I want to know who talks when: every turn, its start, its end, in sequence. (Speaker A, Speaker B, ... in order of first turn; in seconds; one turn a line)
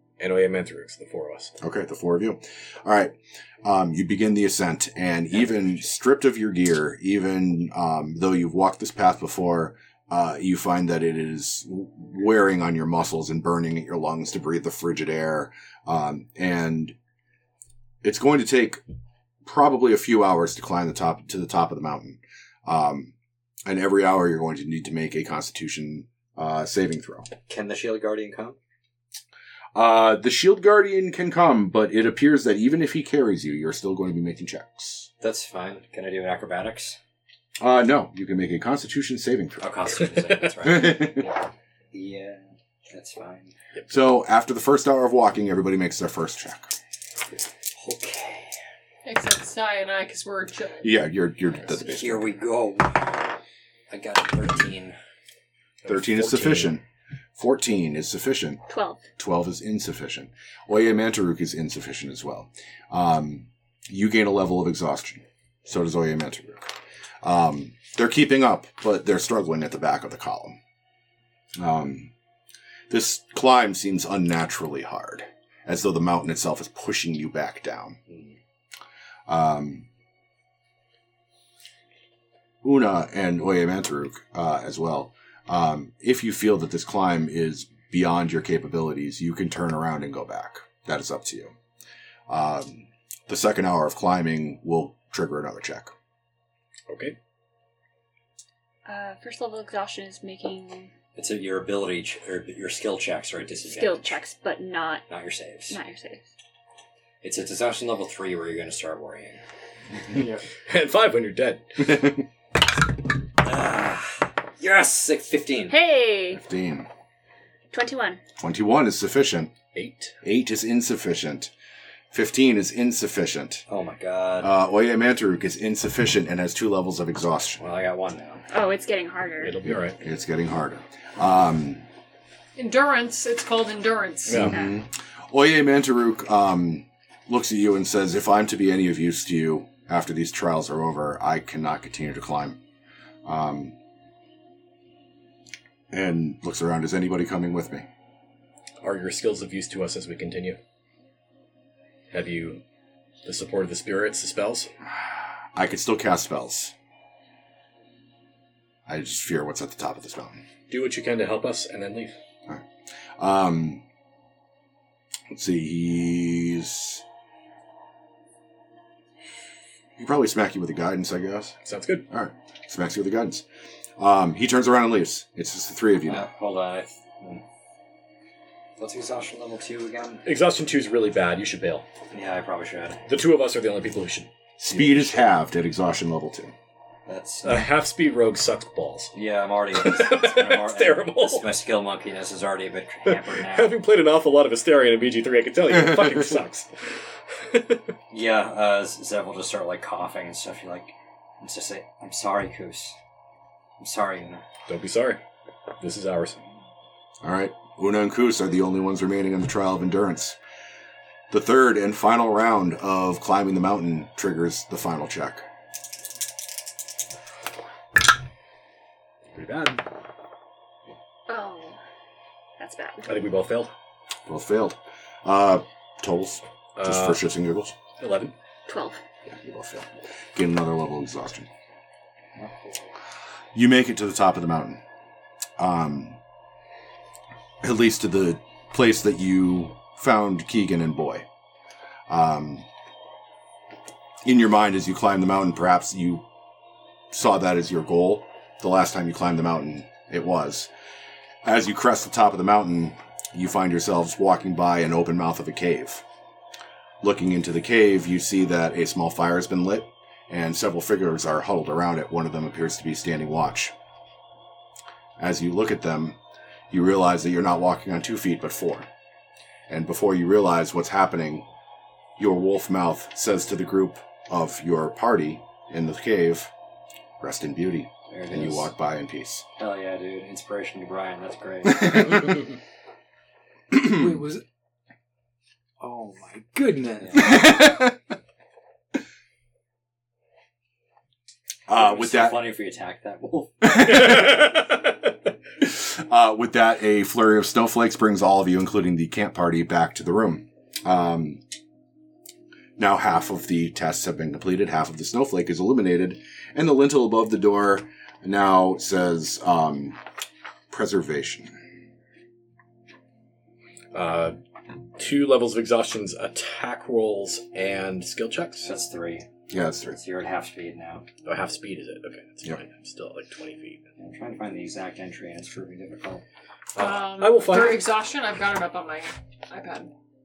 Speaker A: 0.2-1.5
Speaker B: 1.6-16.9
Speaker B: 18.0-18.8
Speaker B: 19.4-23.1
Speaker B: 23.6-27.3
Speaker C: 27.5-28.6
Speaker B: 29.7-35.1
Speaker C: 35.2-37.0
Speaker B: 37.6-39.6
Speaker C: 39.6-43.5
Speaker B: 40.6-41.3
Speaker B: 43.9-46.7
Speaker C: 47.7-48.5
Speaker D: 49.0-51.0
Speaker B: 50.8-52.3
Speaker C: 51.8-53.4
Speaker C: 53.9-55.0
Speaker A: 55.8-56.8
Speaker B: 55.9-56.8
Speaker B: 57.4-58.6
Speaker E: 58.7-59.0
Speaker B: 59.2-66.7
Speaker B: 67.2-70.6
Speaker B: 71.5-72.1
Speaker B: 72.9-78.0
Speaker C: 78.1-78.3
Speaker B: 79.3-79.9
Speaker B: 82.6-91.5
Speaker B: 92.3-95.9
Speaker A: 96.9-97.2
Speaker E: 98.8-100.9
Speaker C: 101.2-104.2
Speaker E: 103.7-105.0
Speaker C: 105.1-105.8
Speaker E: 105.7-106.2
Speaker C: 107.2-109.4
Speaker F: 110.1-110.4
Speaker A: 110.6-112.0
Speaker B: 111.8-112.2
Speaker C: 113.4-115.7
Speaker E: 115.7-116.4
Speaker B: 116.3-116.9
Speaker E: 117.7-118.2
Speaker B: 118.4-119.5
Speaker A: 119.7-120.1
Speaker B: 120.2-121.5
Speaker B: 122.1-123.6
Speaker C: 123.7-124.5
Speaker B: 124.4-127.6
Speaker C: 127.6-128.4
Speaker E: 128.5-129.6
Speaker A: 129.4-130.0
Speaker B: 129.7-131.8
Speaker D: 132.6-134.5
Speaker A: 134.3-134.6
Speaker B: 134.3-142.6
Speaker B: 143.2-143.8
Speaker B: 145.9-147.9
Speaker A: 148.8-150.6
Speaker A: 152.1-152.6
Speaker A: 153.2-154.7
Speaker B: 155.5-156.7
Speaker B: 158.9-160.4
Speaker A: 160.7-162.1
Speaker B: 163.2-163.8
Speaker B: 165.3-167.0
Speaker B: 170.0-171.6
Speaker A: 171.6-172.1
Speaker B: 172.1-173.4
Speaker B: 174.0-176.3
Speaker C: 176.1-177.4
Speaker C: 178.8-180.2
Speaker A: 180.2-181.8
Speaker C: 182.1-183.0
Speaker A: 183.1-185.2
Speaker B: 184.6-186.5
Speaker C: 187.1-187.7
Speaker A: 187.4-189.1
Speaker C: 189.1-193.8
Speaker A: 189.7-191.4
Speaker A: 193.0-196.7
Speaker A: 197.3-197.9
Speaker C: 198.1-202.9
Speaker C: 203.8-204.4
Speaker A: 204.7-205.2
Speaker A: 205.8-206.4
Speaker B: 207.2-210.4
Speaker B: 211.3-215.4
Speaker A: 219.3-219.8
Speaker E: 221.3-221.8
Speaker E: 222.6-223.1
Speaker A: 223.0-223.7
Speaker B: 224.3-227.7
Speaker A: 226.8-227.2
Speaker A: 228.0-228.3
Speaker E: 228.7-229.0
Speaker B: 229.3-231.5
Speaker F: 232.4-232.7
Speaker B: 233.5-234.8
Speaker B: 235.6-236.2
Speaker B: 237.6-241.2
Speaker B: 242.1-242.7
Speaker B: 244.2-246.2
Speaker B: 247.1-250.7
Speaker B: 251.4-256.0
Speaker B: 257.0-263.7
Speaker B: 265.2-266.2
Speaker B: 266.7-268.9
Speaker B: 269.7-271.5
Speaker B: 272.2-276.5
Speaker B: 277.2-279.4
Speaker C: 278.1-278.7
Speaker C: 279.6-282.4
Speaker B: 281.7-282.4
Speaker F: 283.7-284.4
Speaker B: 283.7-284.0
Speaker F: 285.8-287.8
Speaker C: 287.0-287.4
Speaker B: 287.1-288.0
Speaker B: 291.7-292.5
Speaker C: 291.7-293.9
Speaker B: 293.6-294.4
Speaker A: 293.8-295.1
Speaker B: 295.6-301.4
Speaker B: 302.8-310.0
Speaker B: 310.7-311.6
Speaker A: 313.9-314.4
Speaker A: 315.0-318.7
Speaker C: 318.6-319.3
Speaker B: 319.5-320.0
Speaker C: 319.9-321.1
Speaker A: 321.2-323.8
Speaker C: 324.0-326.2
Speaker A: 326.7-327.9
Speaker D: 326.8-329.9